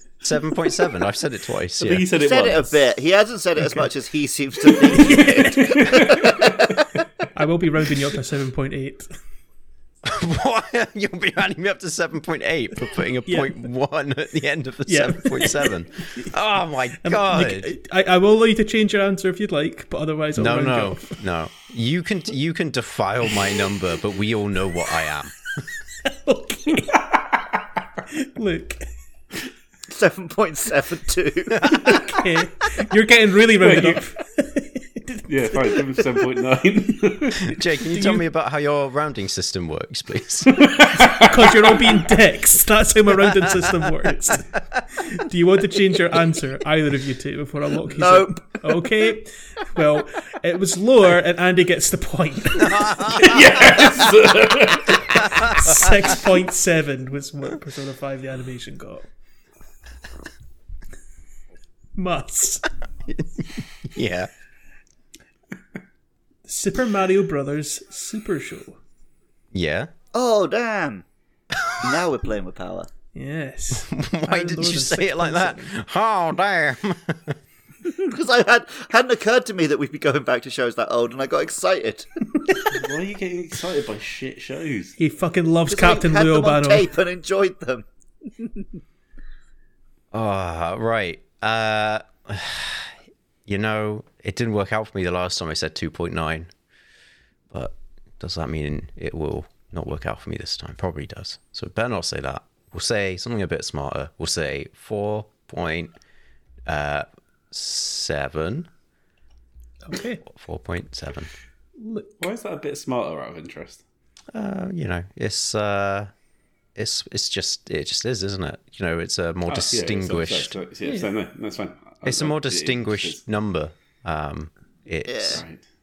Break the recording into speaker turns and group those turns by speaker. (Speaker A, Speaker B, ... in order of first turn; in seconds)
Speaker A: 0.2-2.1, 10.0-17.7, 20.4-25.6, 37.4-40.6, 52.6-53.4, 55.2-55.8, 63.1-64.3, 69.5-69.9, 73.8-77.4, 90.1-96.5, 97.5-105.9, 106.7-108.7, 110.3-111.3, 114.3-116.1, 116.8-120.6, 122.0-125.4
Speaker B: 1.8-2.8, 5.5-6.5, 33.6-34.0, 35.3-37.5, 40.5-41.7, 53.1-55.3, 82.7-85.0, 112.2-113.8, 119.5-123.2, 125.3-125.6
Speaker C: 2.1-6.9, 29.9-32.1, 47.9-48.8, 70.1-71.0, 71.8-72.9, 77.8-82.1, 85.7-88.7, 125.1-125.4
Speaker D: 3.6-3.9, 4.7-6.0, 7.3-9.1, 13.3-13.6, 14.9-16.3, 17.0-21.2, 26.0-27.1, 28.1-28.9, 31.6-36.2, 37.8-38.2, 40.9-54.1, 55.1-59.1, 62.0-62.7, 66.5-68.8, 73.1-75.8, 85.0-86.9, 109.8-110.2, 111.8-112.2, 120.8-121.1